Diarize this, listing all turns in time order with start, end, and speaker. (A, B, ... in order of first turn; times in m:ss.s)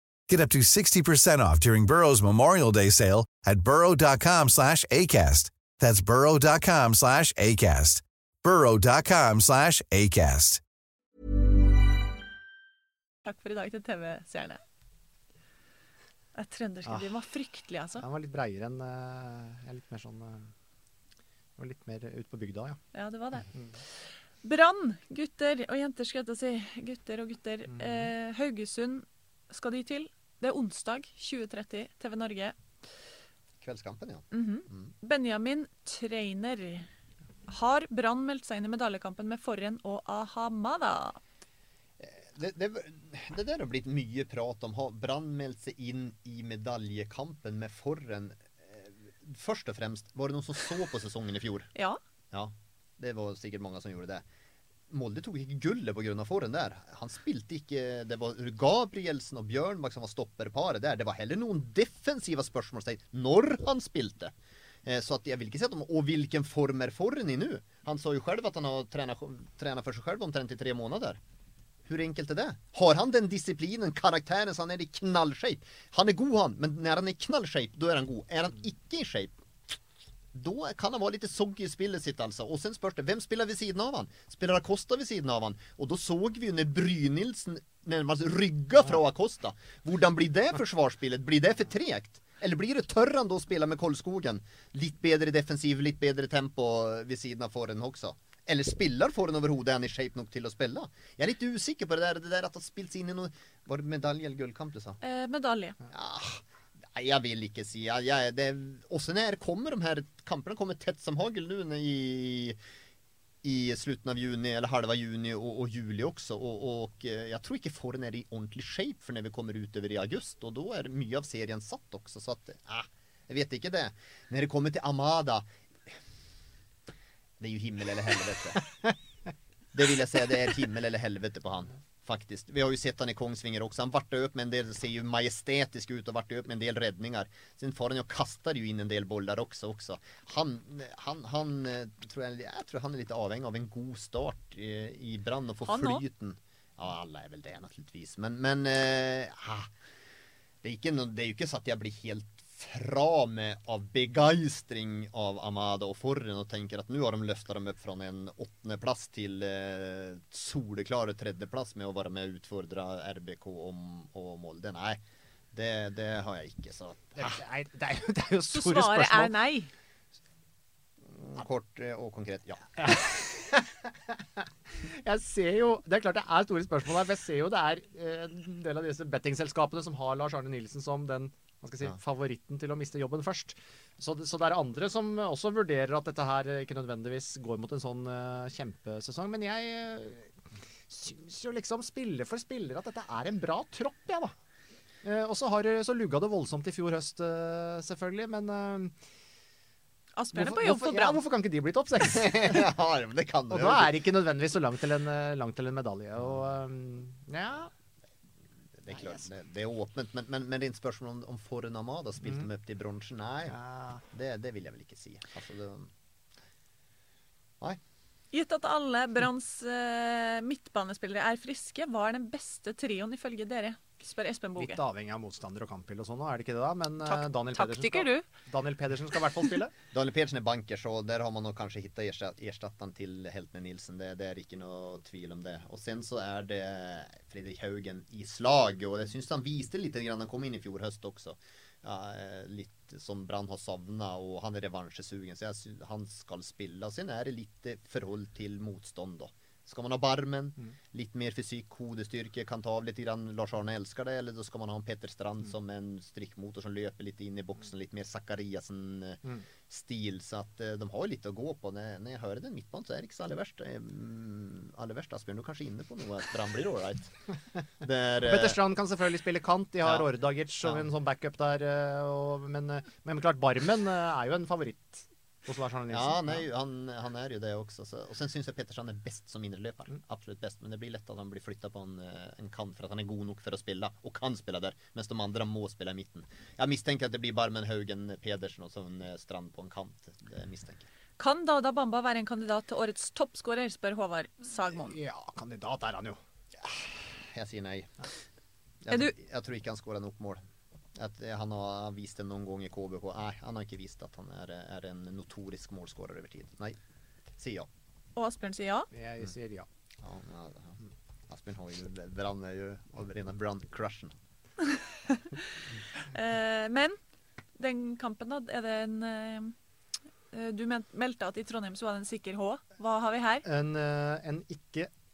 0:00.3-0:10.6 A
0:13.2-0:14.6 B
0:16.4-0:18.0 B
0:16.9-0:17.2 C
0:18.0-0:20.5 C
0:21.6-0:22.8 C
0:22.9-0:23.5 B
0:23.5-0:23.8 C
0:24.4-0:32.6 B
0:27.7-0:28.1 C
0:33.6-0:34.9 D
0:34.3-0:36.9 B
0:37.5-0:41.2 B
0:42.0-0:51.7 D
0:52.3-0:54.2 D
0:54.9-1:04.3 D
1:04.8-1:11.2 D
1:11.9-1:19.8 D
1:20.3-1:45.0 D
1:45.0-1:45.8 B
1:45.9-1:52.6 D
1:53.4-2:05.9 D
2:07.4-2:08.6 D
2:09.7-2:29.7 D
2:25.7-2:26.0 B
2:30.6-2:47.4 D
2:47.2-2:49.3 C
2:48.5-2:49.7 B
2:51.1-2:53.0 D
2:52.8-3:10.3 C
3:10.9-3:14.3 C
3:15.0-3:18.9 C
3:20.2-3:21.2 B
3:20.3-3:22.7 C
3:22.0-3:24.0 D
3:23.5-3:27.7 C
3:28.8-3:33.6 D
3:33.5-3:34.0 C
3:34.1-3:35.9 D
3:38.3-3:44.8 B
3:44.6-3:49.7 C
3:47.0-3:48.3 B
3:49.9-4:27.2 D
4:27.8-4:28.6 D
4:28.2-4:36.4 C
4:35.9-4:50.9 D
4:51.2-4:55.0 B
4:54.7-4:56.2 C
4:56.6-4:57.9 D
4:58.8-5:00.4 D
5:01.0-5:06.8 D
5:07.4-5:07.7 D
5:08.2-5:08.9 B
5:08.9-5:09.7 C
5:10.0-5:14.2 D
5:15.1-5:15.4 B
5:16.1-5:17.0 B
5:17.6-5:19.6 B
5:20.3-5:23.4 B
5:23.4-5:24.9 C